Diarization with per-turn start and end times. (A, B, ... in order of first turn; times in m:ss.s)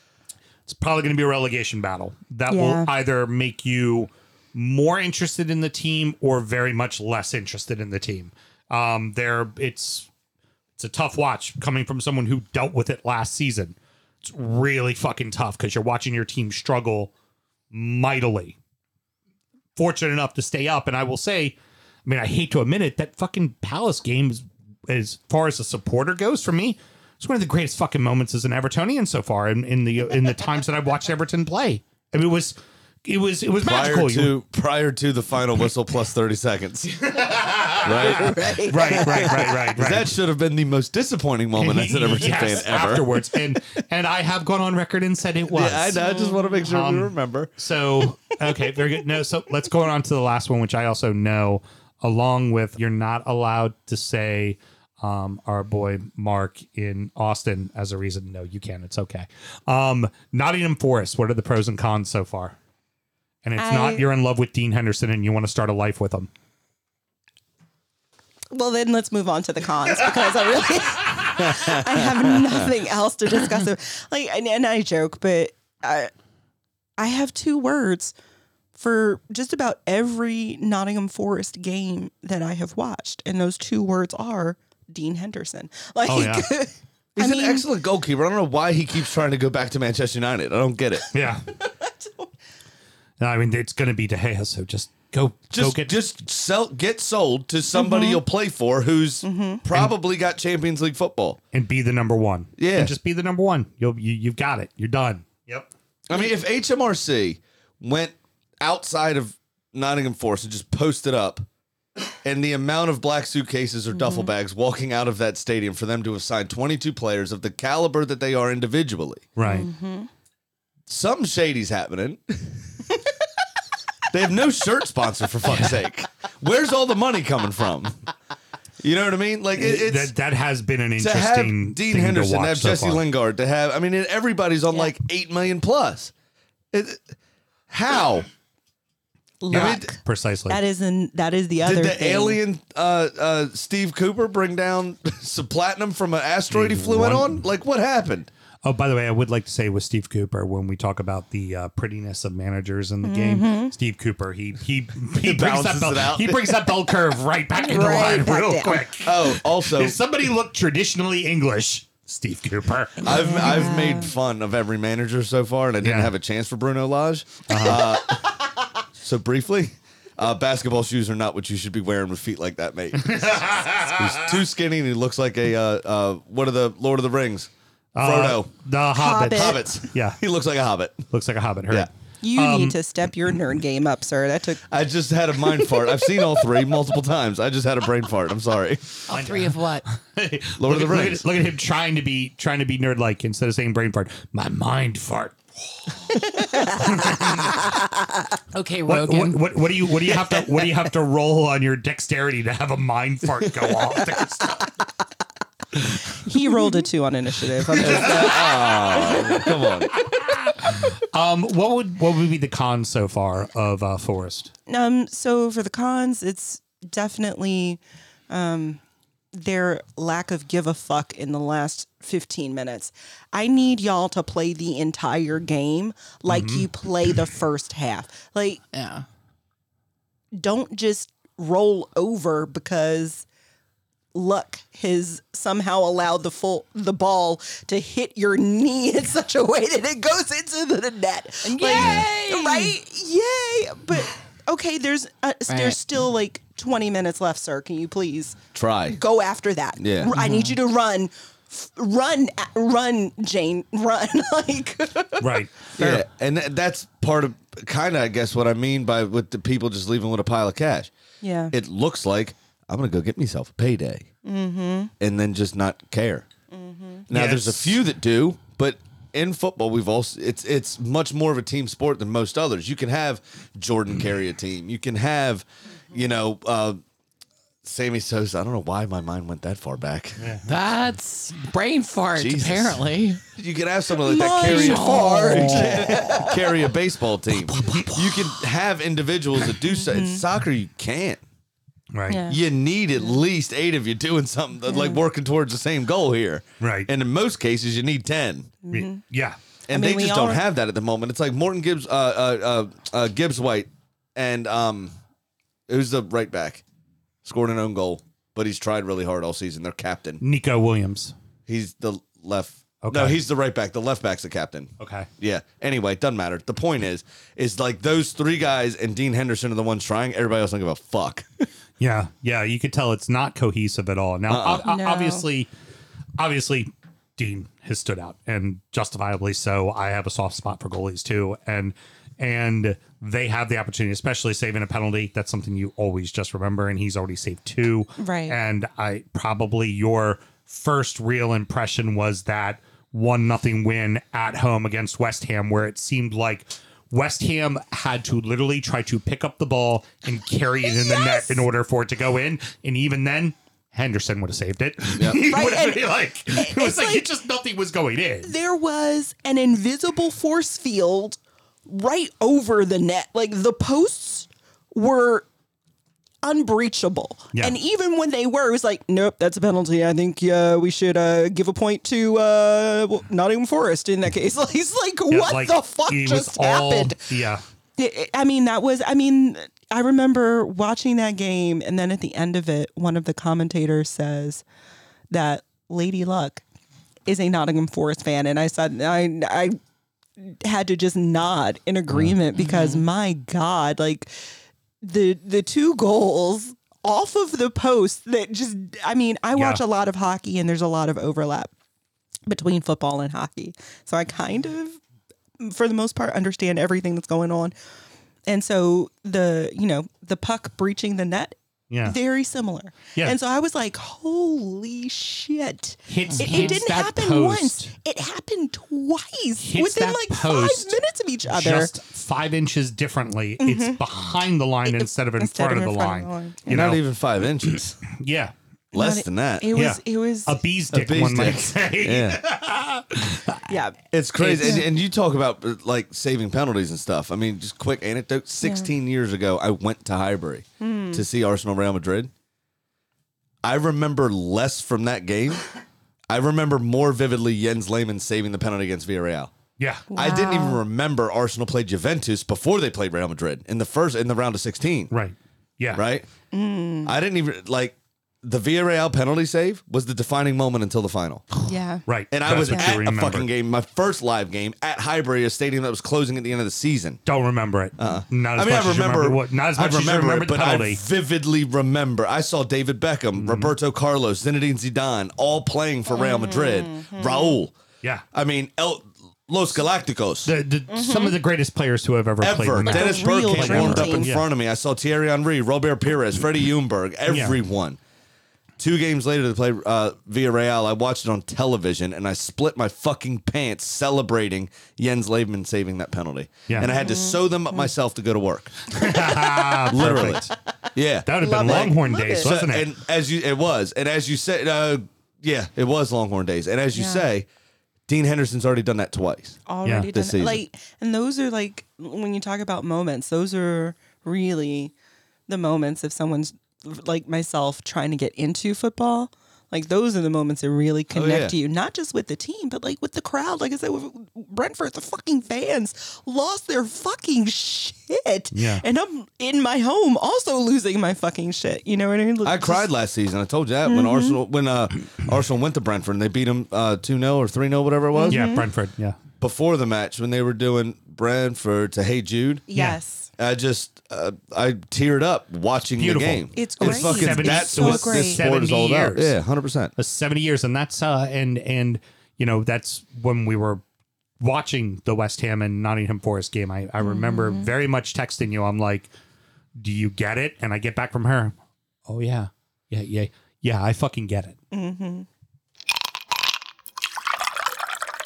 0:00.7-0:10.1 A
0:02.5-0:02.9 B
0:10.8-0:17.1 A
0:17.7-0:18.6 A
0:19.8-0:34.3 A
0:33.6-0:43.6 C
0:37.1-0:40.1 A
0:37.9-0:39.6 B
0:41.6-0:46.0 A
0:45.5-0:47.5 C
0:46.0-0:46.6 B
0:46.6-1:02.5 A
1:03.4-1:06.3 A
1:03.6-1:04.0 B
1:08.5-1:16.1 B
1:11.4-1:12.5 C
1:17.0-1:18.1 B
1:18.7-1:27.6 B
1:26.1-1:26.5 A
1:27.2-1:31.1 C
1:31.1-1:31.5 A
1:31.6-1:32.3 B
1:33.2-1:36.0 A
1:35.5-1:41.4 C
1:37.7-1:38.2 B
1:39.2-1:39.6 B
1:41.5-1:45.7 A
1:42.6-1:43.0 C
1:46.1-1:51.4 C
1:52.2-1:59.3 C
1:53.9-1:54.3 B
1:59.4-1:59.7 A
1:59.4-2:00.1 B
2:00.9-2:02.8 C
2:04.1-2:08.0 C
2:05.5-2:05.8 A
2:08.8-2:10.1 C
2:09.6-2:13.0 A
2:11.0-2:16.1 C
2:16.7-2:17.1 C
2:17.7-2:18.3 C
2:19.4-2:20.0 B
2:19.5-2:19.9 C
2:19.5-2:20.6 A
2:20.5-2:22.4 B
2:21.6-2:28.3 C
2:26.5-2:27.4 A
2:28.6-2:43.1 A
2:33.0-2:33.7 B
2:35.2-2:36.8 C
2:37.5-2:38.9 B
2:39.0-2:40.0 C
2:43.0-2:48.2 C
2:43.0-2:44.1 B
2:45.8-2:46.1 A
2:47.5-2:48.0 A
2:49.0-2:58.5 C
2:53.0-2:54.4 A
2:57.9-3:00.2 A
2:59.0-2:59.6 B
2:59.2-3:01.0 C
3:01.1-3:02.8 A
3:02.2-3:04.6 B
3:04.7-3:09.0 C
3:09.1-3:09.8 D
3:09.1-3:15.4 A
3:10.6-3:11.2 C
3:16.0-3:17.6 A
3:16.3-3:16.7 B
3:18.5-3:19.4 D
3:18.9-3:24.7 A
3:26.1-3:29.4 B
3:27.8-3:29.9 C
3:28.1-3:29.2 A
3:29.9-3:34.5 A
3:34.7-3:38.8 B
3:39.3-3:48.6 B
3:46.3-3:46.7 A
3:48.7-3:49.0 D
3:50.3-3:53.2 B
3:54.1-4:15.4 B
4:01.4-4:02.7 D
4:01.8-4:02.1 C
4:05.5-4:05.8 D
4:08.5-4:09.0 C
4:09.8-4:10.1 C
4:10.1-4:10.6 D
4:15.2-4:16.0 A
4:15.8-4:20.9 C
4:21.2-4:21.5 B
4:21.5-4:24.1 C
4:24.2-4:24.9 B
4:25.0-4:26.3 C
4:26.5-4:27.0 B
4:27.1-4:36.8 C
4:27.1-4:27.8 A
4:37.6-4:40.3 C
4:40.4-4:43.2 D
4:42.2-4:51.2 C
4:44.0-4:46.5 B
4:44.5-4:45.8 D
4:47.5-4:47.9 A
4:49.6-4:50.2 B
4:51.9-4:52.2 A
4:52.1-4:52.4 B
4:52.3-4:58.5 C
4:54.7-4:55.0 B
4:56.6-4:56.9 A
4:58.6-4:59.0 B
4:58.7-4:59.4 A
4:59.7-5:04.9 C
4:59.7-5:00.4 B
5:05.7-5:06.6 C
5:07.2-5:10.2 C
5:10.2-5:11.1 A
5:11.5-5:21.2 C
5:12.8-5:13.2 A
5:14.8-5:15.1 A
5:21.8-5:25.5 A
5:24.3-5:24.6 C
5:24.6-5:25.2 B
5:26.2-5:58.3 A
5:38.0-5:38.4 B
5:50.6-5:51.4 B
5:55.2-5:57.0 B
5:58.2-6:05.3 B
6:06.2-6:17.1 B
6:15.1-6:17.4 A
6:17.8-6:24.4 B
6:25.1-6:26.4 B
6:27.0-6:29.6 B
6:30.2-6:34.1 B
6:31.9-6:32.2 A
6:34.8-6:41.5 B
6:39.3-6:39.6 A
6:42.3-6:44.8 B
6:45.4-6:47.5 B
6:48.3-7:01.7 B
6:51.7-6:52.0 A
6:55.9-6:57.7 A
6:59.4-7:06.8 A
7:03.4-7:03.8 B
7:04.6-7:06.5 B
7:06.5-7:07.8 C
7:07.9-7:08.3 A
7:08.7-7:10.4 B
7:08.7-7:09.5 C
7:09.5-7:13.4 A
7:10.7-7:12.2 C
7:13.5-7:14.7 B
7:13.9-7:22.1 C
7:14.3-7:14.6 A
7:18.4-7:18.7 B
7:20.6-7:21.0 B
7:23.4-7:25.4 C
7:26.1-7:29.3 C
7:29.6-7:29.9 A
7:29.9-7:30.6 B
7:29.9-7:34.9 C
7:34.9-7:35.8 A
7:35.7-7:36.1 C
7:36.3-7:36.9 B
7:36.8-7:41.2 C
7:41.4-7:41.8 B
7:41.8-7:43.3 A
7:42.1-7:47.0 C
7:42.5-7:42.7 B
7:47.0-7:50.8 A
7:47.8-7:57.5 C
7:53.2-7:53.5 A
7:55.9-7:57.4 B
7:58.1-8:00.3 C
8:00.2-8:04.2 A
8:00.7-8:01.2 B
8:02.2-8:07.8 C
8:02.6-8:04.1 B
8:07.1-8:07.4 A
8:08.6-8:18.9 C
8:16.5-8:16.7 A
8:16.6-8:17.7 B
8:18.7-8:20.3 A
8:19.7-8:27.2 C
8:21.0-8:22.7 A
8:21.2-8:22.3 B
8:26.7-8:27.0 B
8:27.9-8:29.4 C
8:29.5-8:34.7 B
8:29.6-8:29.9 A
8:29.9-8:30.4 C
8:35.3-8:52.7 B
8:40.9-8:41.4 C
8:48.3-8:48.6 A
8:52.2-8:58.3 C
8:53.6-8:54.2 B
8:57.9-8:58.4 B
8:58.1-8:59.0 A
8:59.2-9:02.4 C
9:02.5-9:03.1 B
9:03.2-9:09.7 C
9:05.8-9:09.1 A
9:06.3-9:08.2 B
9:09.8-9:13.6 A
9:14.2-9:18.9 A
9:16.8-9:17.5 B
9:19.6-9:21.3 A
9:21.9-9:24.4 A
9:24.5-9:25.1 B